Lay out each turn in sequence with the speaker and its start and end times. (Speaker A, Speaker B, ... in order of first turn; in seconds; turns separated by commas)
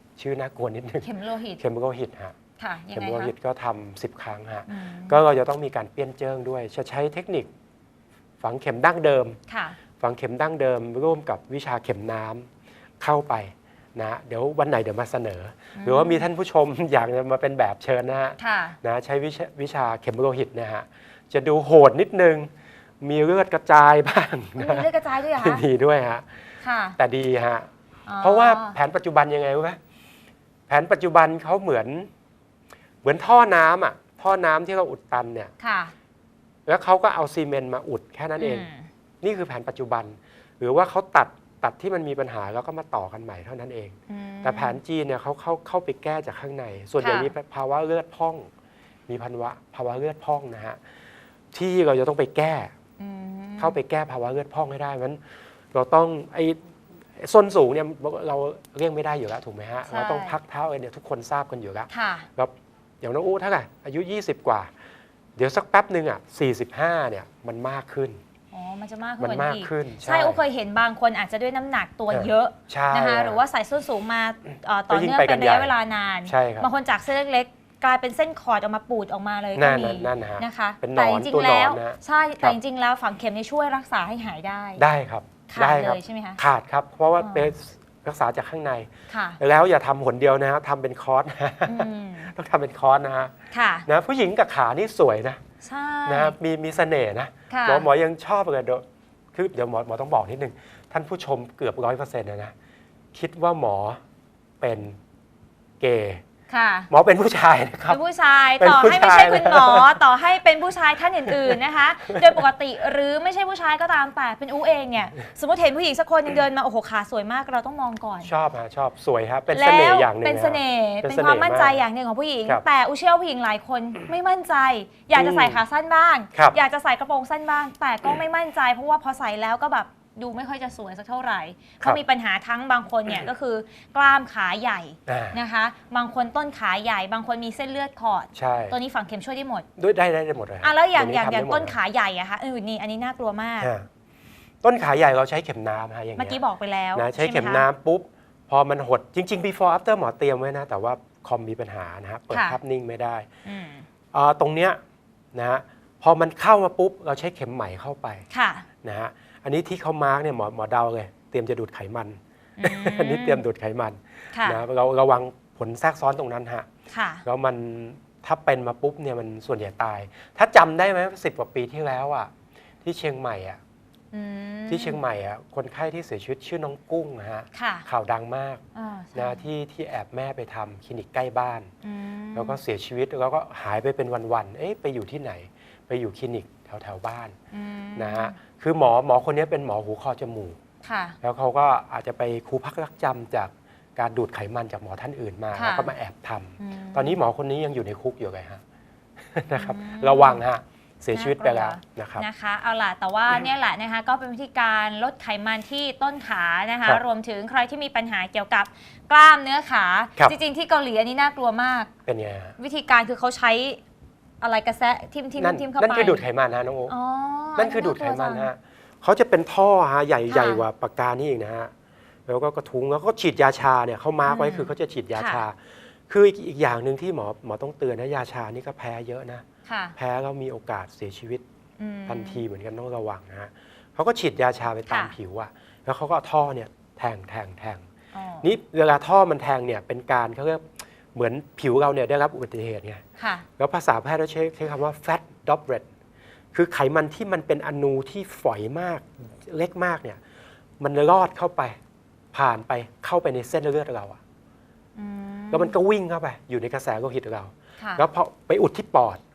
Speaker A: 0.2-2.4, Speaker B: 1.0-1.6, Speaker B: 2.6-3.3, Speaker A: 2.9-7.5, Speaker B: 4.7-5.2, Speaker A: 8.4-9.4, Speaker B: 9.5-9.8, Speaker A: 10.0-12.5, Speaker A: 13.0-26.3, Speaker B: 15.7-16.2, Speaker B: 18.4-18.8, Speaker B: 24.6-25.6, Speaker B: 26.6-27.0, Speaker A: 27.0-27.7, Speaker B: 28.1-28.8, Speaker A: 28.2-29.8, Speaker A: 30.7-32.1, Speaker A: 33.0-35.5, Speaker B: 35.6-35.9, Speaker A: 36.6-38.7, Speaker B: 38.4-38.9, Speaker A: 39.2-48.5, Speaker B: 44.1-44.8, Speaker B: 47.0-47.3, Speaker A: 49.1-50.8, Speaker A: 51.5-52.7, Speaker B: 53.0-53.8, Speaker A: 53.6-56.6, Speaker A: 57.1-64.7, Speaker B: 59.9-60.4, Speaker B: 61.9-62.3, Speaker A: 65.4-68.2, Speaker B: 68.5-84.8, Speaker A: 69.2-70.4, Speaker A: 72.1-73.4, Speaker A: 74.9-75.7, Speaker A: 76.2-76.7, Speaker A: 79.5-82.6, Speaker A: 84.8-93.3, Speaker B: 85.5-86.4, Speaker B: 87.2-87.5, Speaker B: 89.1-89.4, Speaker B: 91.7-92.3, Speaker B: 93.5-93.9, Speaker A: 93.8-95.4, Speaker B: 95.6-96.3, Speaker A: 96.0-102.5, Speaker B: 97.5-97.8, Speaker A: 103.1-104.0, Speaker A: 104.6-105.0, Speaker A: 105.8-106.2, Speaker B: 106.5-106.9, Speaker A: 106.9-108.0, Speaker B: 107.9-118.3, Speaker A: 108.5-110.0, Speaker A: 111.3-112.4, Speaker A: 118.2-121.8, Speaker B: 119.5-139.7, Speaker A: 125.1-125.6, Speaker A: 135.1-135.4, Speaker A: 138.3-138.8, Speaker A: 139.8-141.8, Speaker B: 140.6-143.7, Speaker A: 143.6-143.9, Speaker A: 144.6-146.4, Speaker B: 146.2-147.7, Speaker A: 146.9-153.3, Speaker B: 152.3-152.6, Speaker B: 153.4-153.9, Speaker A: 154.1-154.8, Speaker A: 155.3-158.2, Speaker B: 158.3-158.7, Speaker A: 158.8-166.7, Speaker B: 162.6-163.4, Speaker B: 164.3-164.6, Speaker B: 166.9-167.2, Speaker A: 167.2-172.3, Speaker A: 172.8-173.6, Speaker B: 174.1-175.0, Speaker A: 174.7-178.6, Speaker B: 177.5-177.8, Speaker B: 178.7-179.4, Speaker A: 179.1-181.7, Speaker B: 181.8-182.6, Speaker A: 182.3-187.3, Speaker B: 187.5-188.4, Speaker A: 187.9-190.6, Speaker B: 190.8-191.2, Speaker A: 191.2-198.6, Speaker B: 195.5-195.9, Speaker B: 196.6-197.2, Speaker A: 199.3-202.2, Speaker B: 199.5-200.4, Speaker B: 201.1-211.9, Speaker A: 212.1-212.6, Speaker B: 212.6-213.8, Speaker B: 214.4-216.2, Speaker A: 215.4-216.9, Speaker B: 216.9-218.5, Speaker A: 217.6-221.7, Speaker B: 220.3-220.6, Speaker A: 222.3-229.4, Speaker B: 224.2-225.4, Speaker B: 229.7-229.9, Speaker A: 229.9-231.4, Speaker B: 231.8-232.4, Speaker A: 232.1-237.8, Speaker B: 234.9-235.1, Speaker B: 238.1-238.5, Speaker A: 238.4-243.0, Speaker B: 243.2-243.4, Speaker A: 243.6-245.9, Speaker A: 246.5-250.2, Speaker A: 250.8-251.8, Speaker A: 252.3-254.2, Speaker B: 254.9-255.7, Speaker A: 255.5-259.2, Speaker B: 257.8-258.0